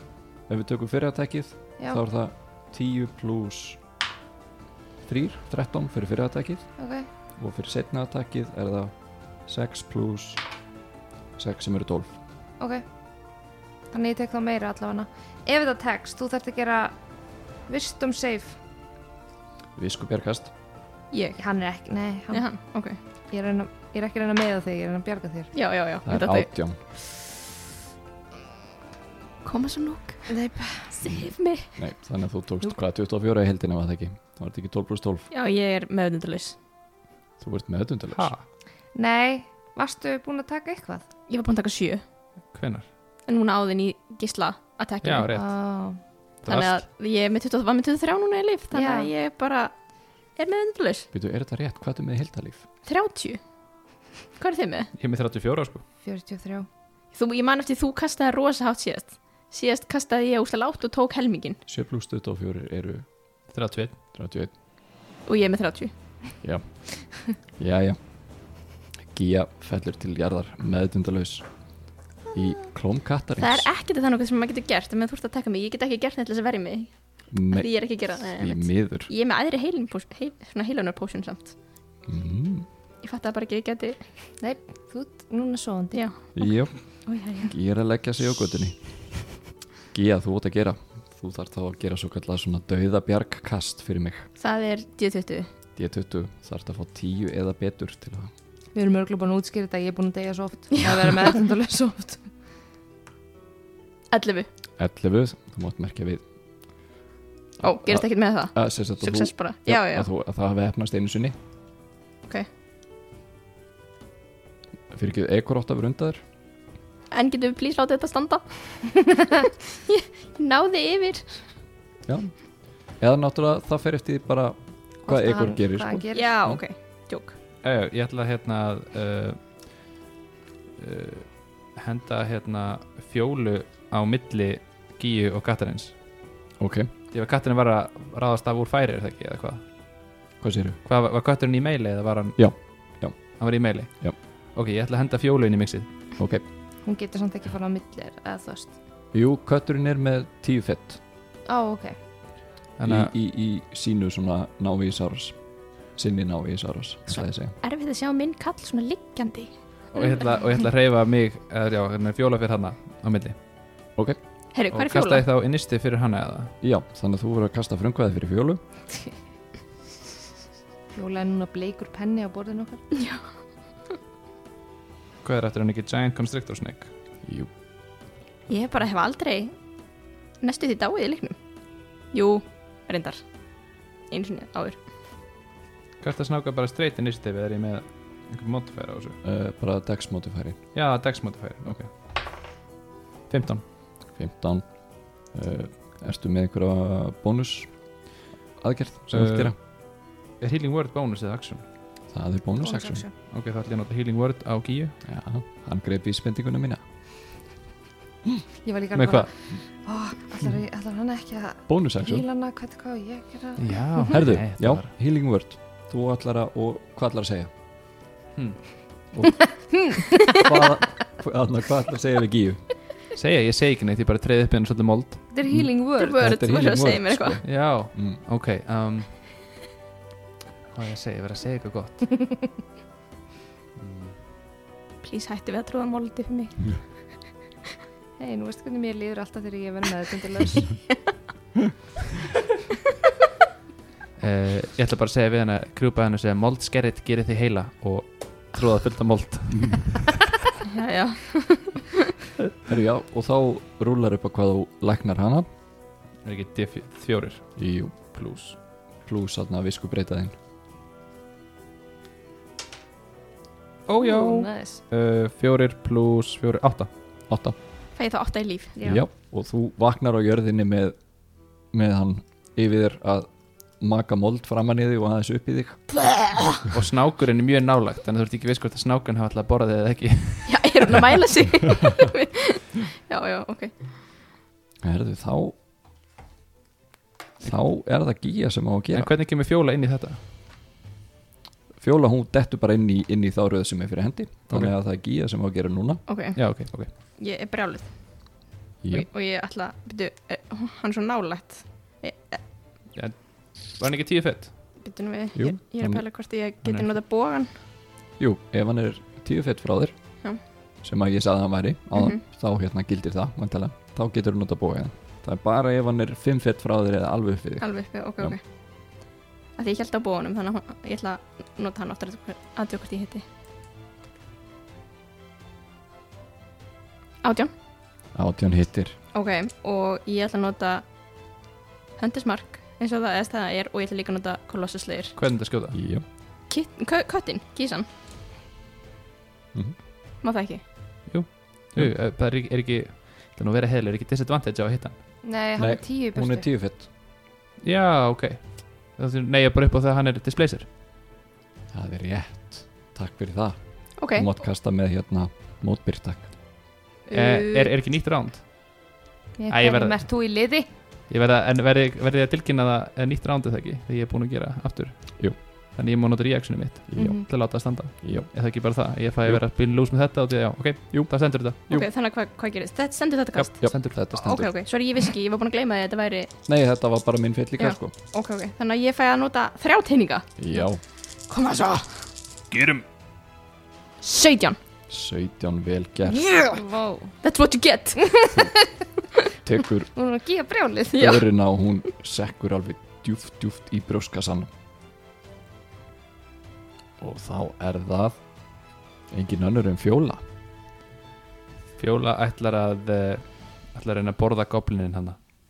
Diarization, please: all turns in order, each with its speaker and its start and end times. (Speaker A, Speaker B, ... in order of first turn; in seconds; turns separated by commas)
Speaker A: 0.5-3.8, Speaker A: 5.0-6.7, Speaker B: 6.8-7.1, Speaker A: 7.3-8.9, Speaker A: 9.4-10.4, Speaker A: 11.4-12.2, Speaker B: 13.9-17.0, Speaker B: 17.6-18.6, Speaker A: 19.8-20.5, Speaker C: 21.1-21.4, Speaker B: 21.4-22.5, Speaker C: 22.3-23.0, Speaker B: 23.3-25.5, Speaker C: 25.5-26.5, Speaker A: 26.0-26.8, Speaker C: 29.4-31.7, Speaker B: 30.3-30.9, Speaker A: 31.7-35.3, Speaker C: 35.3-36.6, Speaker A: 37.4-38.3, Speaker D: 38.1-38.4, Speaker B: 38.9-41.0, Speaker C: 41.3-42.0, Speaker D: 42.5-42.9, Speaker C: 43.2-45.3, Speaker D: 45.0-45.5, Speaker B: 45.3-46.0, Speaker D: 46.4-46.8, Speaker C: 46.5-49.8, Speaker B: 48.7-49.1, Speaker C: 50.3-51.1, Speaker A: 51.1-52.6, Speaker C: 52.8-53.4, Speaker C: 54.4-54.9, Speaker D: 55.0-55.8, Speaker B: 56.0-56.6, Speaker C: 57.1-61.6, Speaker A: 61.7-63.0, Speaker D: 63.5-64.0, Speaker A: 64.1-64.5, Speaker C: 65.2-65.9, Speaker A: 66.4-68.0, Speaker A: 69.0-71.5, Speaker A: 72.3-73.7, Speaker C: 73.4-77.0, Speaker A: 77.3-77.7, Speaker C: 77.5-81.5, Speaker A: 78.3-79.1, Speaker A: 82.1-82.7, Speaker C: 83.0-84.0, Speaker B: 84.4-86.0, Speaker C: 85.9-87.5, Speaker A: 86.3-86.9, Speaker A: 87.4-88.8, Speaker A: 89.9-94.3, Speaker C: 94.4-95.5, Speaker A: 95.8-98.3, Speaker B: 98.7-102.3, Speaker C: 104.1-104.5, Speaker A: 104.8-106.2, Speaker C: 107.6-110.1, Speaker A: 107.6-111.3, Speaker A: 114.9-116.2, Speaker C: 117.1-119.1, Speaker C: 119.9-121.4, Speaker A: 122.0-122.3, Speaker A: 122.9-126.6, Speaker B: 125.0-126.4, Speaker C: 126.1-127.3, Speaker D: 127.6-129.5, Speaker D: 130.8-135.9, Speaker A: 136.6-136.9, Speaker D: 137.1-139.6, Speaker A: 140.4-140.8, Speaker D: 140.8-145.9, Speaker A: 142.4-143.4, Speaker A: 146.2-146.4, Speaker B: 146.8-148.7, Speaker A: 149.1-151.0, Speaker B: 151.4-151.9, Speaker D: 152.8-153.1, Speaker A: 152.8-155.4, Speaker A: 155.9-157.6, Speaker C: 157.6-160.2, Speaker D: 159.9-163.3, Speaker C: 164.5-165.2, Speaker D: 164.7-166.5, Speaker A: 166.6-168.6, Speaker B: 170.9-172.8, Speaker C: 172.9-173.2, Speaker D: 175.2-176.9, Speaker A: 177.2-177.5, Speaker C: 178.5-179.5, Speaker C: 180.4-181.4, Speaker C: 182.1-183.2, Speaker C: 184.1-184.8, Speaker D: 186.0-189.2, Speaker A: 189.2-190.6, Speaker D: 190.7-191.9, Speaker D: 193.3-193.6, Speaker A: 194.1-197.7, Speaker A: 198.6-199.5, Speaker D: 199.1-201.6, Speaker A: 202.1-203.0, Speaker B: 202.6-203.1, Speaker D: 203.3-205.0, Speaker A: 205.0-206.8, Speaker B: 208.6-214.0, Speaker D: 208.9-209.3, Speaker A: 211.7-212.2, Speaker D: 213.6-214.9, Speaker A: 214.1-217.5, Speaker D: 218.3-218.7, Speaker A: 219.1-219.5, Speaker B: 219.6-220.4, Speaker A: 220.3-222.6, Speaker D: 223.1-225.2, Speaker B: 225.3-226.2, Speaker A: 225.5-228.2, Speaker C: 226.0-227.4, Speaker D: 227.4-229.2, Speaker D: 230.7-232.2, Speaker D: 233.8-234.2, Speaker C: 235.0-236.7, Speaker B: 238.2-240.7, Speaker D: 244.2-250.4, Speaker C: 250.6-252.0, Speaker A: 252.7-255.4, Speaker D: 256.2-258.6, Speaker A: 257.6-257.9, Speaker A: 259.0-260.3, Speaker D: 263.9-266.9, Speaker B: 264.0-264.8, Speaker A: 267.3-267.6, Speaker C: 267.9-268.8, Speaker B: 268.8-269.0, Speaker A: 268.8-271.0, Speaker A: 271.7-276.1, Speaker D: 276.7-281.0, Speaker C: 280.4-283.8, Speaker A: 284.8-285.5, Speaker A: 287.4-289.1, Speaker D: 288.9-290.2, Speaker A: 291.8-296.0, Speaker C: 296.1-296.4, Speaker D: 296.3-296.9, Speaker C: 297.0-302.4, Speaker D: 302.9-304.7, Speaker C: 304.8-307.5, Speaker A: 305.3-306.0, Speaker D: 306.6-306.9, Speaker A: 308.2-310.0, Speaker A: 310.8-318.4, Speaker C: 311.9-312.2, Speaker C: 317.6-318.4, Speaker C: 319.6-323.2, Speaker C: 327.2-327.5, Speaker A: 328.1-328.9, Speaker C: 329.1-330.8, Speaker C: 332.0-335.1, Speaker D: 335.1-335.8, Speaker A: 335.7-336.0, Speaker C: 336.5-337.9, Speaker C: 340.2-340.6, Speaker D: 341.1-345.0, Speaker B: 345.2-346.5, Speaker A: 345.6-346.9, Speaker D: 347.6-350.7, Speaker A: 351.7-356.3, Speaker C: 354.0-354.3, Speaker C: 357.1-357.7, Speaker D: 357.1-358.5, Speaker B: 359.4-360.7, Speaker D: 359.5-360.1, Speaker D: 361.1-371.6, Speaker A: 366.9-367.2, Speaker B: 367.0-367.2, Speaker A: 368.0-368.3, Speaker C: 371.7-376.3, Speaker A: 373.4-374.5, Speaker D: 373.6-374.0, Speaker A: 376.5-377.9, Speaker C: 377.6-380.6, Speaker A: 380.4-380.8, Speaker C: 381.3-382.0, Speaker A: 382.5-382.8, Speaker C: 384.0-384.6, Speaker A: 384.9-386.5, Speaker C: 386.1-386.6, Speaker B: 386.5-387.1, Speaker C: 387.2-388.5, Speaker A: 389.4-389.9, Speaker B: 389.9-391.0, Speaker C: 390.9-391.2, Speaker A: 390.9-394.5, Speaker A: 397.0-398.2, Speaker A: 399.1-400.2, Speaker D: 401.8-405.2